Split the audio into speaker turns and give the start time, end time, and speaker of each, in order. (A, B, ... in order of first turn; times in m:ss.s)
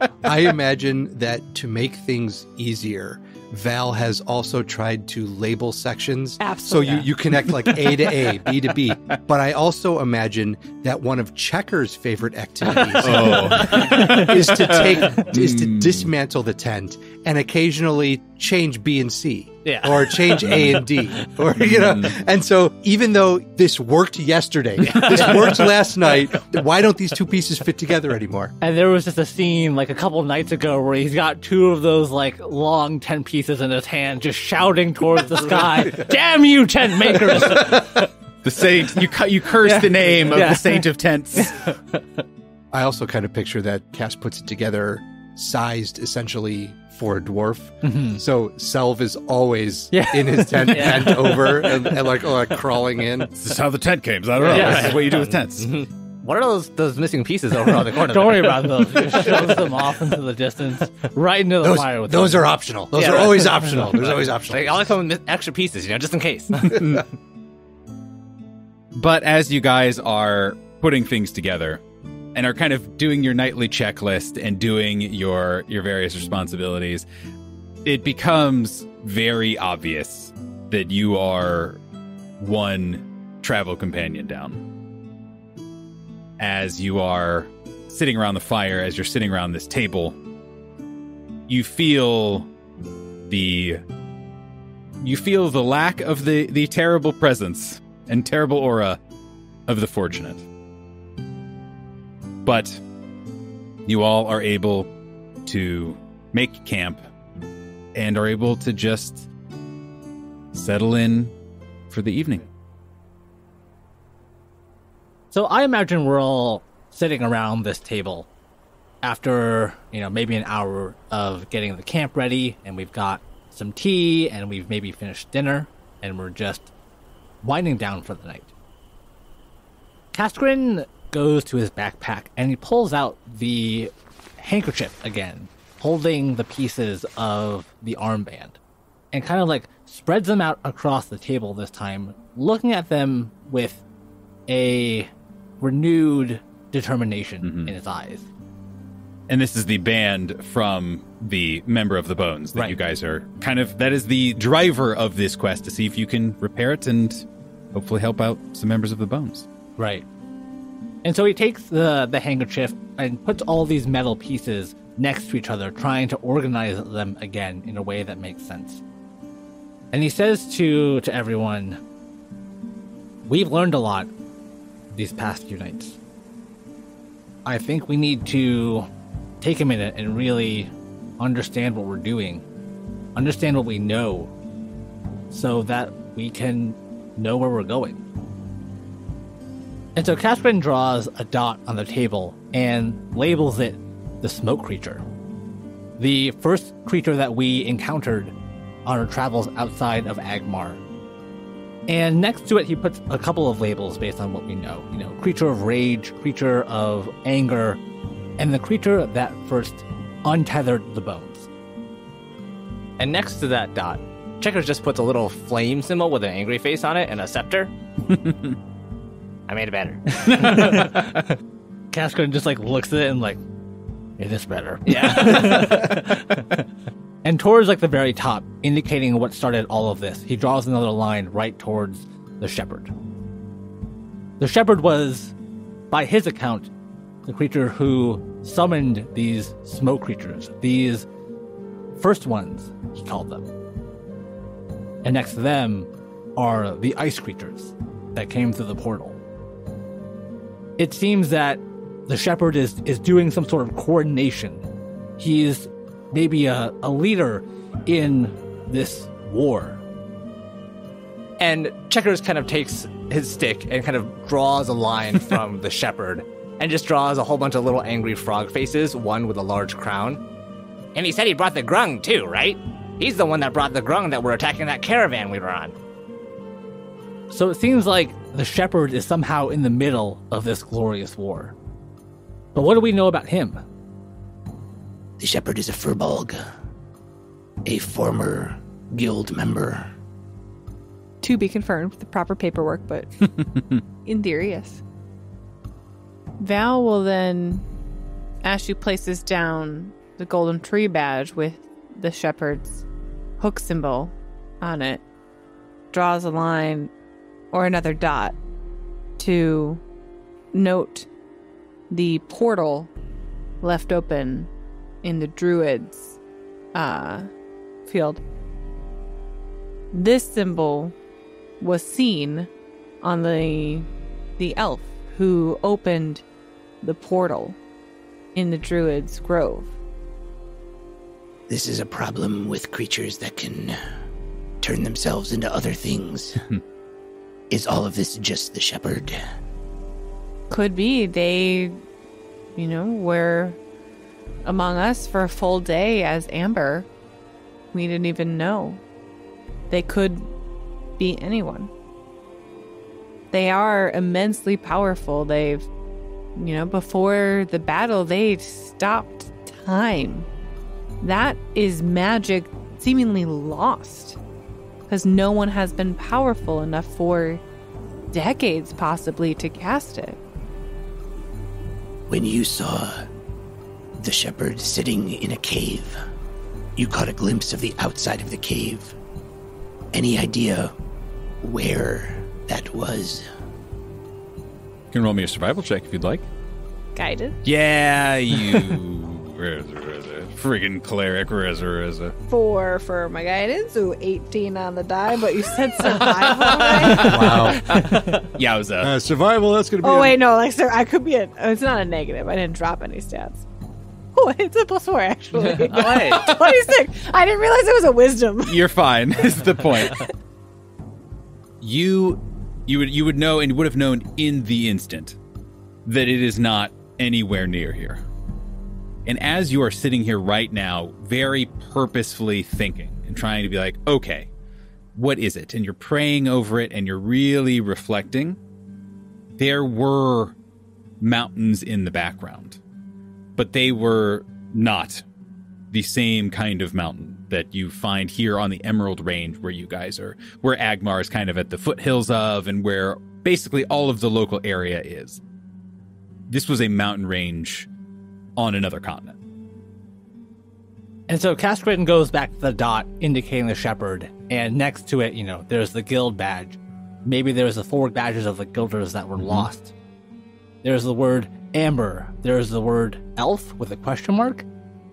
0:00.2-0:28.6 A
0:06.4-0:07.1 B
0:13.0-0:16.1 C
0:14.0-0:14.6 D
0:19.6-0:20.6 E
0:21.6-0:22.2 C
0:24.9-0:25.4 E
0:28.6-0:38.1 D
0:38.4-0:41.7 C
0:39.6-0:41.8 D
0:42.7-0:53.3 A
0:47.8-0:48.2 D
0:49.9-0:52.5 D
0:50.7-0:51.0 E
0:53.3-0:55.8 C
0:54.4-0:59.8 E
0:54.4-0:54.9 A
0:54.5-0:54.9 D
0:57.6-1:02.6 D
1:01.6-1:04.9 A
1:02.9-1:07.0 E
1:03.5-1:03.9 D
1:06.7-1:07.0 A
1:08.9-1:11.8 C
1:12.3-1:17.1 C
1:17.8-1:21.8 C
1:22.4-1:24.6 C
1:26.4-1:30.2 C
1:31.5-1:32.5 C
1:33.3-1:33.8 C
1:35.0-1:39.0 C
1:39.7-1:40.4 C
1:42.4-1:42.8 C
1:43.8-1:44.9 C
1:45.4-1:47.0 C
1:47.9-1:49.3 C
1:50.5-1:51.3 C
1:51.9-1:52.5 C
1:55.3-1:58.3 D
1:59.0-2:06.7 D
2:07.4-2:08.5 D
2:10.1-2:18.6 D
2:19.1-2:23.8 D
2:24.5-2:25.1 D
2:25.6-2:28.3 D
2:27.4-2:27.7 C
2:29.3-2:39.5 C
2:39.8-2:40.0 D
2:41.0-2:48.8 D
2:49.9-2:51.8 D
2:53.2-2:54.1 D
2:54.9-2:56.0 D
2:57.4-2:58.9 D
2:59.4-3:02.4 D
3:03.2-3:04.3 D
3:05.3-3:08.0 D
3:10.0-3:15.0 D
3:16.0-3:20.8 D
3:21.9-3:27.8 D
3:28.4-3:31.5 D
3:33.0-3:37.7 E
3:38.1-3:38.6 C
3:39.5-3:41.0 E
3:40.1-3:41.3 D
3:41.9-3:43.4 D
3:44.2-3:46.6 D
3:44.8-3:46.0 E
3:47.2-3:52.9 D
3:54.4-3:55.3 D
3:55.9-3:56.7 D
3:57.3-4:01.1 D
4:02.0-4:03.5 D
4:05.0-4:09.2 D
4:10.8-4:14.7 D
4:15.2-4:19.8 D
4:21.4-4:30.2 E
4:30.9-4:35.7 E
4:37.3-4:41.6 D
4:42.6-4:43.6 D
4:45.2-4:46.4 F
4:47.6-4:49.9 F
4:51.2-4:53.2 B
4:54.0-4:54.8 B
4:56.4-4:57.7 B
4:58.4-5:02.8 B
5:03.4-5:05.0 B
5:05.9-5:06.9 B
5:07.5-5:08.4 B
5:09.2-5:09.8 B
5:10.5-5:11.1 B
5:11.9-5:12.9 B
5:13.6-5:14.5 B
5:15.0-5:16.2 B
5:16.7-5:17.3 B
5:17.8-5:18.2 B
5:19.9-5:20.9 B
5:21.6-5:22.5 B
5:23.0-5:26.2 B
5:26.8-5:27.6 B
5:28.3-5:29.8 B
5:31.5-5:33.8 F
5:34.6-5:36.4 F
5:37.5-5:39.2 F
5:40.5-5:41.8 B
5:42.6-5:43.6 B
5:44.4-5:46.9 B
5:47.7-5:48.8 B
5:49.7-5:50.3 B
5:51.0-5:51.7 B
5:53.3-5:55.7 B
5:56.4-6:00.3 B
6:01.0-6:04.2 B
6:04.9-6:07.4 B
6:08.1-6:10.2 B
6:12.1-6:13.1 F
6:14.0-6:16.0 F
6:16.8-6:19.0 F
6:19.9-6:20.7 F
6:21.4-6:23.2 F
6:24.9-6:26.3 C
6:26.9-6:27.4 B
6:27.4-6:32.2 C
6:32.3-6:37.4 B
6:36.0-6:38.9 C
6:36.9-6:37.8 A
6:38.8-6:40.2 A
6:39.8-6:43.4 B
6:44.2-6:48.7 B
6:45.7-6:46.3 E
6:48.4-6:50.1 C
6:51.6-6:55.2 C
6:55.8-6:58.0 C
6:59.1-7:04.3 C
7:04.9-7:08.4 C
7:09.4-7:10.4 C
7:11.0-7:12.6 C
7:13.4-7:15.0 C
7:15.7-7:25.2 C
7:26.3-7:27.7 C
7:28.4-7:29.2 C
7:31.1-7:39.7 D
7:39.2-7:39.5 C
7:40.6-7:44.4 D